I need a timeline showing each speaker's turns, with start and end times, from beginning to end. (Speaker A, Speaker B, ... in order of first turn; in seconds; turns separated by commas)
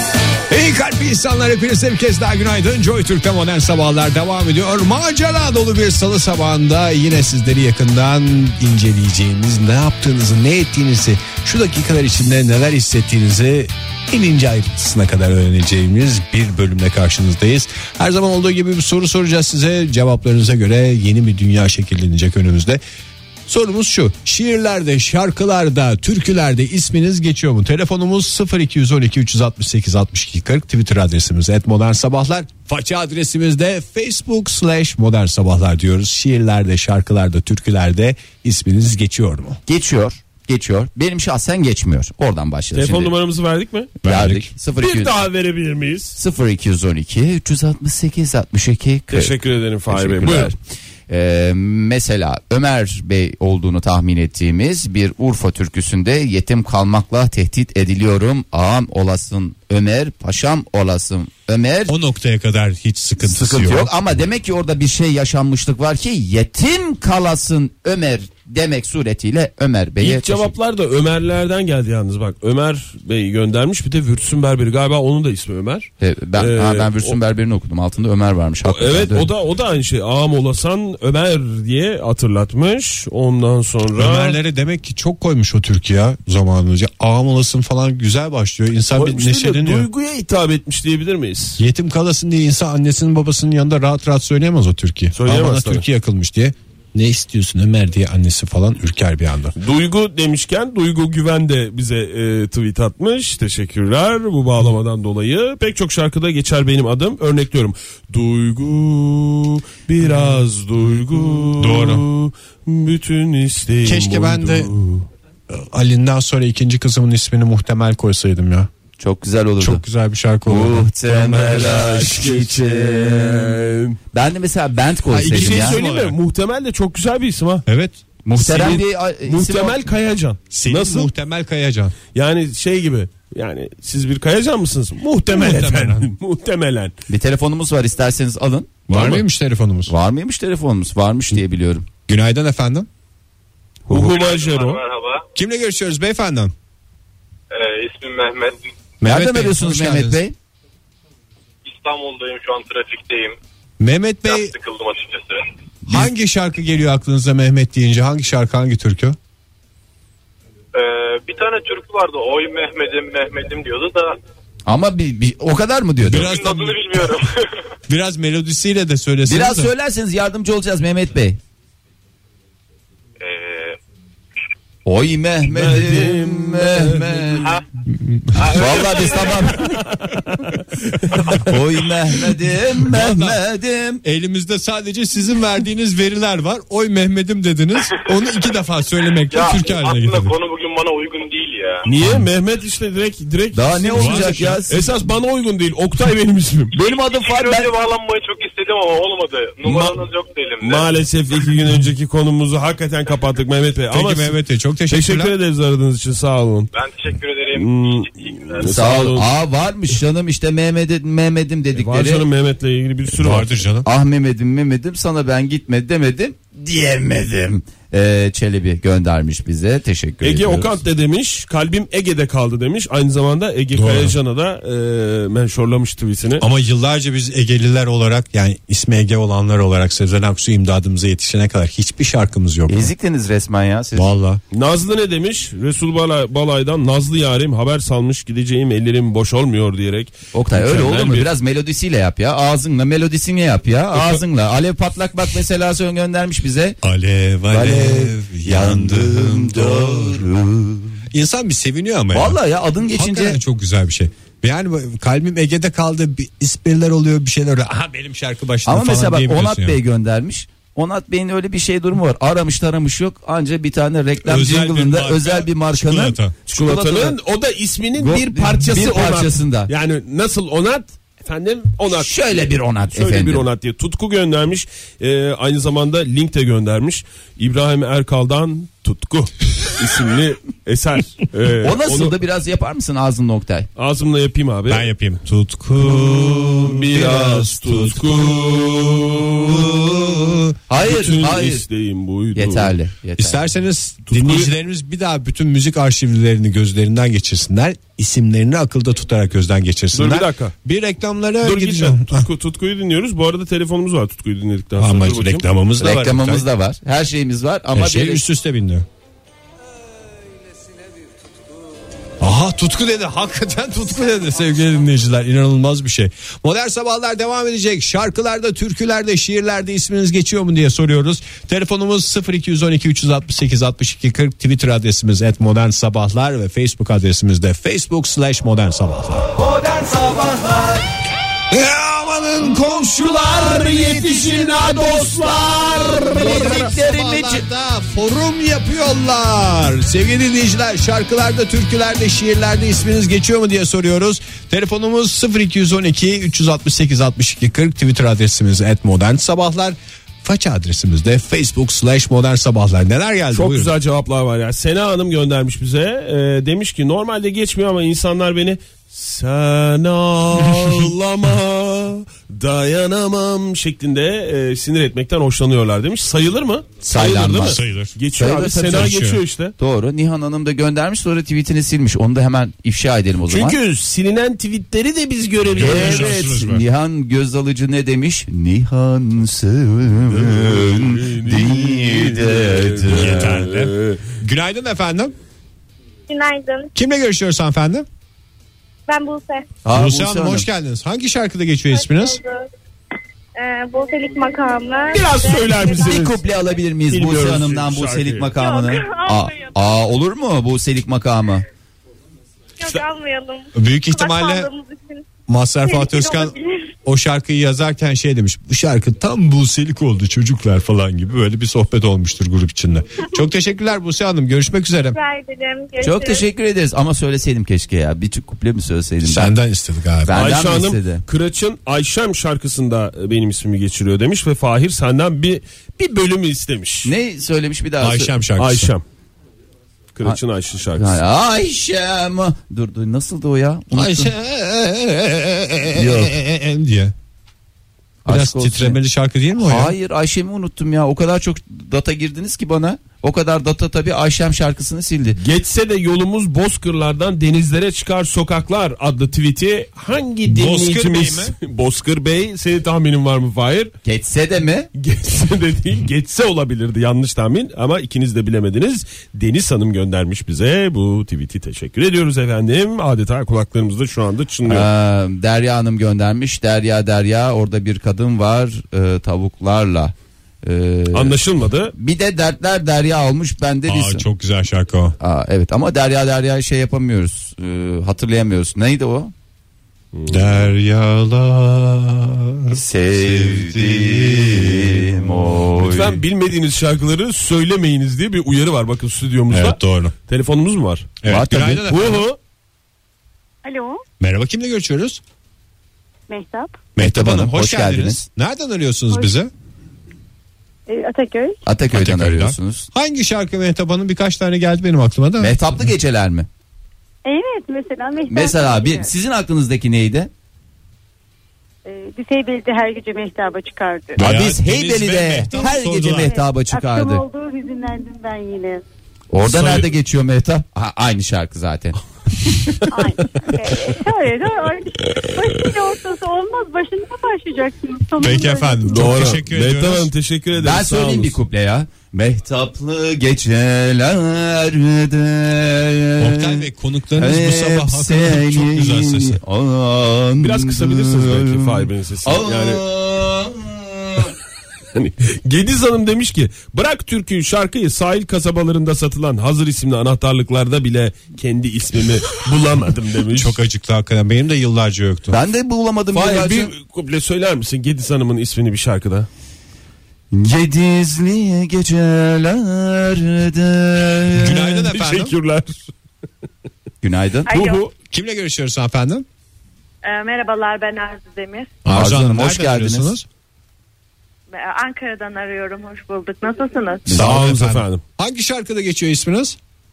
Speaker A: 0.5-22.8, Speaker A: 23.5-39.6, Speaker B: 39.7-43.1, Speaker C: 42.7-44.0, Speaker A: 44.0-44.5, Speaker B: 44.0-45.1, Speaker C: 44.8-46.2, Speaker B: 46.1-49.3, Speaker C: 49.1-50.5, Speaker B: 49.9-50.5, Speaker B: 51.1-61.9, Speaker A: 61.9-63.9, Speaker B: 63.2-70.5, Speaker C: 70.0-77.2, Speaker B: 76.0-79.3, Speaker C: 78.6-84.4, Speaker A: 84.0-89.9, Speaker C: 88.9-91.6, Speaker A: 91.6-99.5, Speaker C: 95.1-95.8, Speaker C: 99.6-115.1, Speaker A: 111.6-112.0, Speaker A: 113.8-114.7, Speaker A: 115.5-118.7, Speaker B: 119.0-119.8, Speaker A: 119.6-122.5, Speaker B: 120.5-125.8, Speaker C: 121.3-123.9, Speaker A: 125.1-126.2, Speaker C: 125.2-127.6, Speaker A: 127.7-128.0, Speaker B: 128.2-129.8, Speaker C: 128.3-131.1, Speaker A: 130.5-131.9, Speaker C: 132.1-136.9, Speaker A: 135.3-136.1, Speaker B: 137.1-138.8, Speaker A: 138.9-139.9, Speaker C: 138.9-139.2, Speaker B: 139.9-141.9, Speaker A: 142.1-142.9, Speaker C: 143.9-144.8, Speaker D: 143.9-145.2, Speaker A: 145.3-146.5, Speaker D: 147.5-148.7, Speaker A: 149.0-150.2, Speaker B: 149.0-150.3, Speaker D: 151.6-153.4, Speaker A: 153.8-154.5, Speaker D: 154.3-155.4, Speaker A: 155.9-159.2, Speaker D: 160.7-164.2, Speaker B: 164.7-166.3, Speaker A: 166.0-167.2, Speaker D: 166.2-167.5, Speaker A: 167.9-169.7, Speaker B: 169.2-171.4, Speaker D: 173.2-173.8, Speaker B: 174.8-177.6, Speaker C: 175.4-177.5, Speaker A: 177.9-178.4, Speaker D: 178.3-179.4, Speaker B: 178.4-179.8, Speaker C: 179.7-180.1, Speaker B: 181.4-184.0, Speaker A: 182.8-183.4, Speaker A: 184.0-190.3, Speaker D: 189.3-191.8, Speaker C: 191.8-196.7, Speaker B: 193.5-194.9, Speaker A: 193.9-194.6, Speaker B: 196.7-197.7, Speaker D: 196.8-200.9, Speaker C: 199.6-200.0, Speaker C: 200.6-204.4, Speaker A: 203.9-205.3, Speaker C: 204.9-206.7, Speaker D: 206.7-208.7, Speaker C: 207.5-209.3, Speaker B: 208.6-212.2, Speaker C: 211.7-213.6, Speaker A: 213.1-213.9, Speaker B: 213.8-220.8, Speaker C: 220.2-226.4, Speaker A: 223.7-224.2, Speaker A: 226.4-232.9, Speaker B: 232.7-234.1, Speaker A: 233.9-234.4, Speaker C: 234.5-241.3, Speaker B: 240.3-246.8, Speaker C: 243.9-244.2, Speaker A: 246.8-250.2, Speaker B: 247.5-251.0, Speaker A: 251.1-259.8, Speaker B: 252.1-253.4, Speaker B: 258.6-267.1, Speaker A: 264.2-266.3, Speaker C: 266.5-282.1, Speaker B: 268.0-269.7, Speaker B: 271.9-273.5, Speaker B: 281.6-283.7, Speaker C: 283.8-284.9, Speaker A: 284.7-288.1, Speaker C: 286.0-289.7, Speaker A: 289.6-290.5, Speaker B: 290.7-291.6, Speaker C: 290.8-292.7, Speaker B: 292.3-293.5, Speaker A: 293.2-302.3, Speaker C: 294.1-294.5, Speaker C: 299.9-300.5, Speaker C: 301.4-305.5, Speaker A: 304.8-306.4, Speaker B: 305.8-308.2, Speaker A: 307.7-308.9, Speaker A: 312.2-329.3, Speaker B: 329.6-330.7, Speaker A: 331.5-353.7, Speaker C: 333.3-336.5, Speaker B: 335.9-337.4, Speaker C: 353.3-369.5, Speaker B: 366.8-367.6, Speaker A: 367.4-367.9, Speaker B: 368.1-368.9, Speaker A: 368.7-369.2, Speaker B: 369.6-373.6, Speaker C: 373.3-376.2, Speaker A: 375.5-376.6, Speaker B: 375.6-383.3, Speaker C: 380.1-384.0, Speaker A: 382.9-385.1, Speaker E: 386.1-386.7, Speaker A: 386.7-387.9, Speaker E: 388.9-389.4, Speaker B: 389.6-390.5, Speaker A: 389.7-392.2, Speaker E: 391.7-392.4, Speaker E: 393.4-396.1, Speaker C: 394.9-396.2, Speaker B: 395.7-401.4, Speaker C: 396.9-398.3, Speaker E: 398.4-399.6, Speaker E: 402.6-405.0, Speaker A: 403.5-404.5, Speaker A: 405.3-415.0, Speaker E: 405.6-406.7, Speaker E: 414.9-416.2, Speaker B: 415.8-419.3, Speaker A: 419.0-420.2, Speaker B: 420.0-421.0, Speaker C: 420.1-426.9, Speaker B: 426.8-428.1, Speaker A: 427.8-428.7, Speaker C: 428.4-428.8, Speaker C: 429.9-431.0, Speaker B: 430.7-434.1, Speaker A: 433.7-436.9, Speaker B: 435.7-436.1, Speaker B: 438.0-438.8, Speaker A: 438.1-439.7, Speaker B: 439.4-445.2, Speaker C: 445.2-453.7, Speaker A: 450.3-451.3, Speaker B: 453.8-454.7, Speaker C: 454.8-464.7, Speaker B: 464.4-471.2, Speaker C: 470.9-471.7, Speaker B: 471.7-474.1, Speaker A: 473.7-474.9, Speaker B: 475.0-479.1, Speaker C: 479.9-480.5, Speaker A: 480.1-485.9, Speaker B: 482.5-485.9, Speaker C: 485.6-491.0, Speaker A: 489.3-489.9, Speaker A: 491.0-492.0, Speaker B: 491.1-491.7, Speaker C: 491.7-492.2, Speaker E: 493.4-493.8, Speaker A: 494.0-495.0, Speaker E: 496.1-496.5, Speaker A: 496.8-499.3, Speaker B: 496.8-498.0, Speaker E: 500.7-501.4, Speaker B: 501.4-502.7, Speaker A: 501.7-505.4, Speaker B: 505.2-506.3, Speaker E: 507.0-508.9, Speaker B: 508.1-510.1, Speaker E: 511.6-514.0, Speaker A: 514.0-516.2, Speaker B: 514.0-517.0, Speaker E: 516.0-518.6, Speaker B: 519.1-521.8, Speaker C: 519.2-519.6, Speaker E: 522.7-529.0, Speaker A: 528.0-529.9, Speaker C: 528.6-531.2, Speaker B: 530.3-544.1, Speaker A: 536.0-539.2, Speaker C: 540.2-542.6, Speaker C: 544.7-553.4, Speaker A: 553.1-555.2, Speaker B: 555.1-556.5, Speaker C: 555.9-559.1, Speaker B: 560.1-564.6, Speaker A: 564.1-565.1, Speaker C: 564.7-565.6, Speaker B: 566.8-567.3, Speaker E: 567.2-567.6, Speaker C: 567.3-567.7, Speaker A: 567.9-569.0, Speaker E: 569.8-571.5, Speaker A: 571.6-573.0, Speaker B: 571.7-573.0, Speaker E: 574.3-576.9, Speaker B: 576.9-577.2, Speaker C: 576.9-577.8, Speaker A: 576.9-579.4